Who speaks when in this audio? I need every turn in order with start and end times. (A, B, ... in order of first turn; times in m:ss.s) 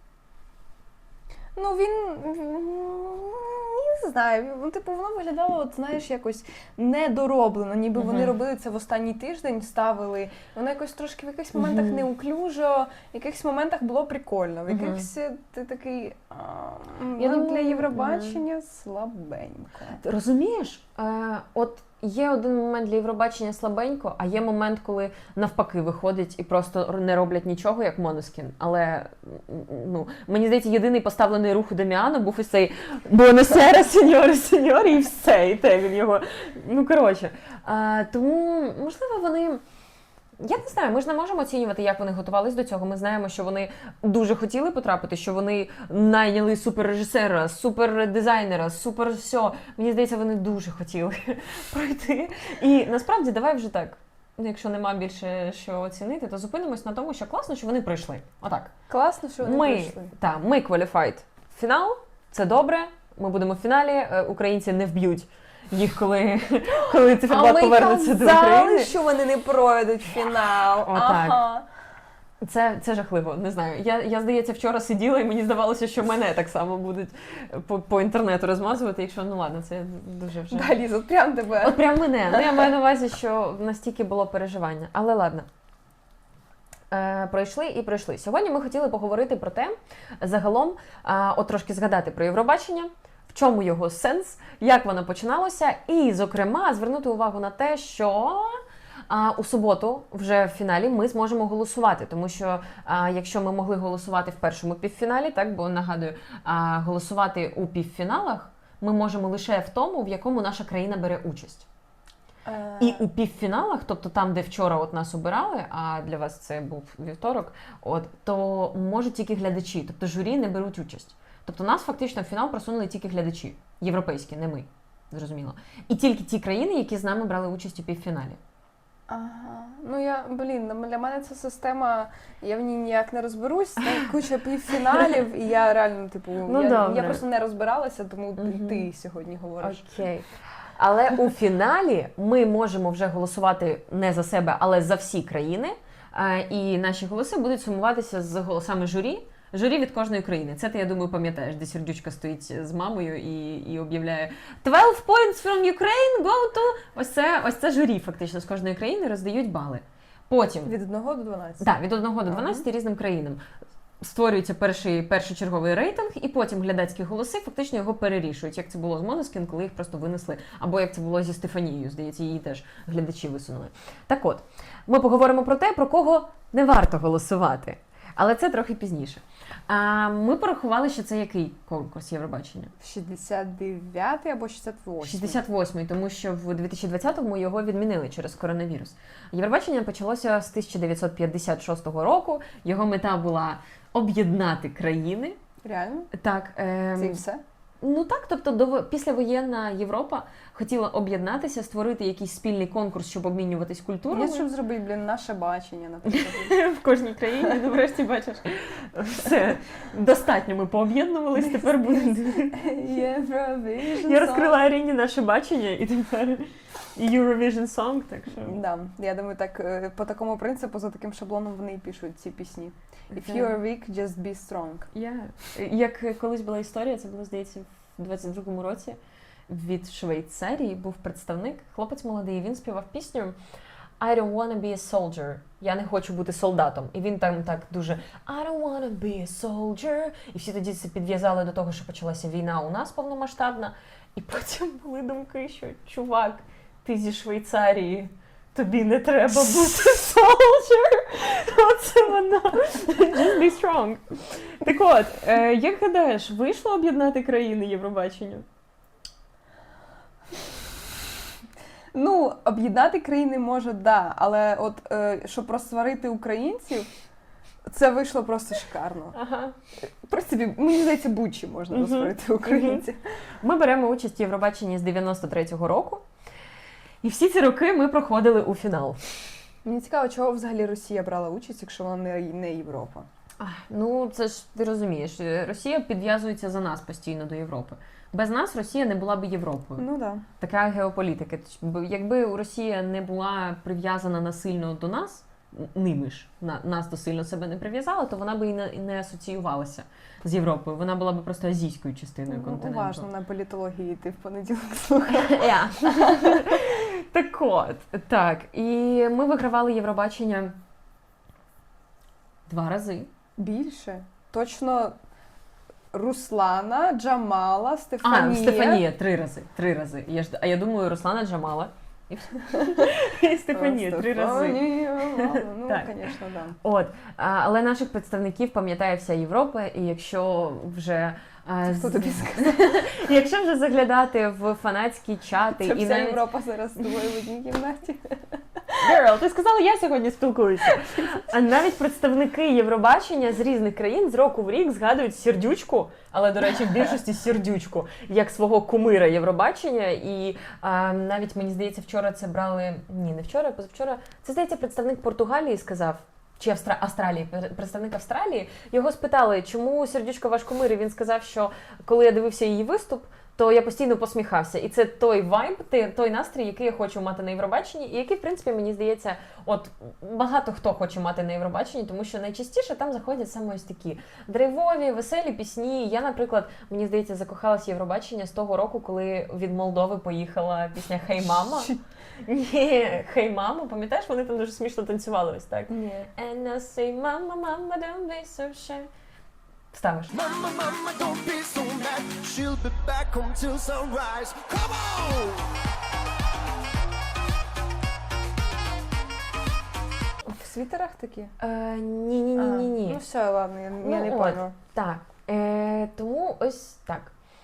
0:01.6-0:20.0 A
0:08.0-0:08.3 B
0:11.5-0:12.1 B
0:14.7-0:15.0 B
0:17.2-0:18.4 B
0:20.0-0:39.6 B
0:40.4-0:58.7 B
0:58.9-1:00.1 A
0:59.4-1:08.9 B
1:07.0-1:11.6 A
1:10.8-1:11.4 B
1:12.4-1:20.7 B
1:20.5-1:22.6 A
1:21.6-1:25.5 B
1:26.9-1:51.6 B
1:52.4-1:53.0 A
1:52.8-2:08.4 B
2:09.1-2:19.8 A
2:14.9-2:15.2 B
2:16.4-2:17.2 B
2:18.4-2:18.9 B
2:19.6-2:40.7 B
2:40.6-2:41.7 A
2:41.6-2:43.4 B
2:42.3-2:42.6 A
2:44.0-3:02.7 B
3:02.8-3:05.4 A
3:05.0-3:15.4 B
3:15.6-3:16.1 A
3:16.1-3:17.2 B
3:17.0-3:17.4 A
3:17.8-3:24.5 B
3:24.1-3:26.6 A
3:26.1-3:32.6 B
3:32.4-3:34.6 A
3:34.0-3:38.6 B
3:38.4-3:44.9 A
3:43.1-3:43.5 B
3:44.9-3:53.4 B
3:54.0-4:18.4 B
4:21.9-4:26.9 A
4:27.7-4:29.2 A
4:29.1-4:29.6 B
4:29.8-4:33.0 A
4:31.7-4:32.8 B
4:33.4-4:36.0 B
4:37.0-4:39.2 B
4:39.6-4:43.1 A
4:43.4-4:49.8 B
4:49.8-4:50.2 A
4:50.4-5:03.1 B
5:02.3-5:06.5 A
5:05.1-5:10.6 B
5:12.5-5:13.1 B
5:13.4-5:14.9 A
5:15.9-5:18.8 A
5:18.0-5:26.1 B
5:22.6-5:22.9 A
5:23.5-5:26.6 A
5:26.6-5:36.2 B
5:31.6-5:32.9 A
5:35.6-5:38.8 A
5:38.8-6:21.7 B
6:21.4-6:21.8 A
6:22.2-6:28.9 B
6:25.7-6:26.1 A
6:29.7-6:30.1 B
6:30.1-6:35.5 C
6:40.2-6:41.3 A
6:41.4-6:43.0 B
6:42.4-6:44.5 A
6:43.8-6:47.1 B